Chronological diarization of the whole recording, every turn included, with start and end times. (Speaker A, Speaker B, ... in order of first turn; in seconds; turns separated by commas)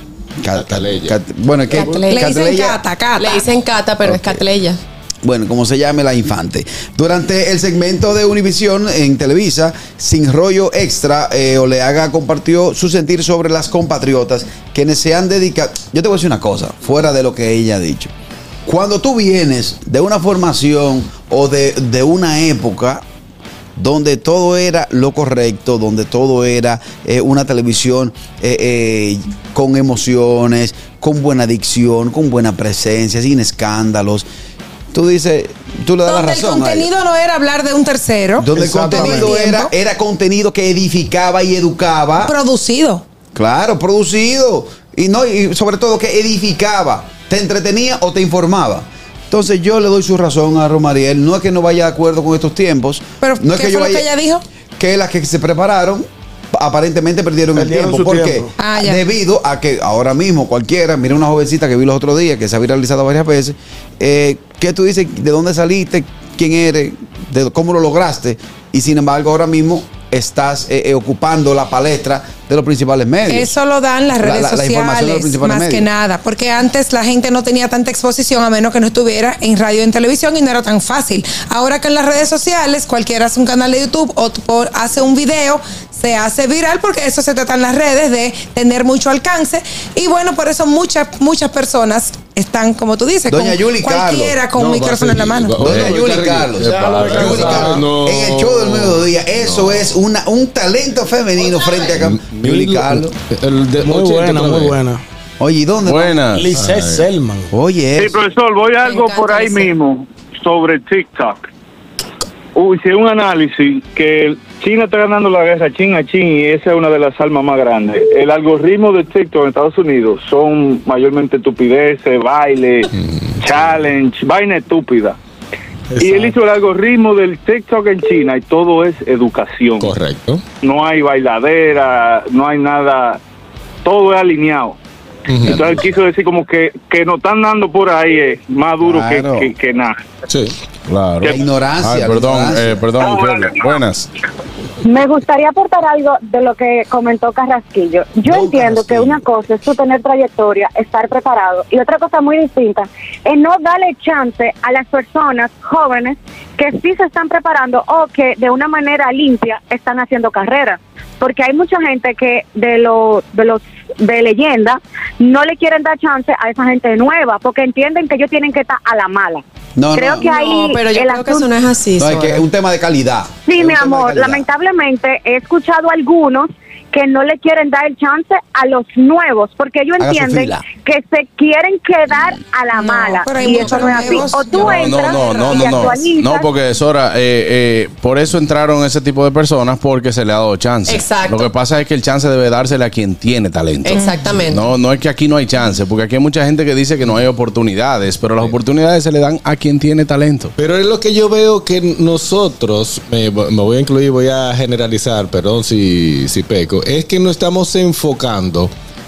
Speaker A: 0.4-2.8, Speaker B: 0.5-1.1, Speaker C: 1.7-2.3, Speaker D: 2.0-3.5, Speaker C: 3.2-4.8, Speaker A: 4.0-4.4, Speaker A: 5.2-18.1, Speaker A: 18.6-23.0, Speaker A: 23.8-34.2, Speaker A: 34.9-36.9, Speaker D: 36.0-39.7, Speaker A: 38.4-42.4, Speaker E: 38.5-39.3, Speaker D: 42.2-43.0, Speaker A: 43.3-54.1, Speaker D: 53.2-54.4, Speaker A: 54.8-73.5, Speaker E: 57.5-58.5, Speaker D: 58.6-59.0, Speaker D: 73.3-95.6, Speaker A: 74.2-75.9, Speaker A: 93.3-94.4, Speaker B: 94.5-100.0, Speaker A: 95.6-103.1, Speaker E: 96.6-97.9, Speaker B: 101.9-104.8, Speaker E: 103.8-105.0, Speaker A: 105.4-106.2, Speaker F: 105.8-106.5, Speaker E: 106.3-107.5, Speaker B: 106.5-107.1, Speaker A: 107.5-108.2, Speaker G: 108.0-111.4, Speaker C: 108.8-109.7, Speaker G: 112.5-122.9, Speaker B: 123.1-123.8, Speaker G: 123.4-125.2, Speaker E: 125.9-126.3, Speaker G: 126.0-130.0, Speaker B: 129.8-130.4, Speaker G: 130.6-133.2, Speaker G: 133.8-134.8, Speaker B: 135.3-135.7, Speaker A: 135.4-136.0, Speaker G: 135.4-140.0, Speaker A: 138.8-139.5, Speaker F: 140.9-144.1, Speaker A: 141.2-142.8, Speaker G: 143.3-143.5, Speaker H: 144.8-169.4, Speaker A: 148.2-149.3, Speaker A: 169.8-170.2, Speaker H: 169.9-171.7, Speaker C: 170.2-172.4, Speaker A: 172.0-174.4, Speaker H: 173.5-186.5, Speaker A: 180.0-180.6, Speaker D: 182.7-186.0, Speaker F: 184.6-200.5, Speaker C: 190.9-191.5, Speaker C: 193.8-194.6, Speaker D: 193.9-194.3, Speaker B: 200.6-208.7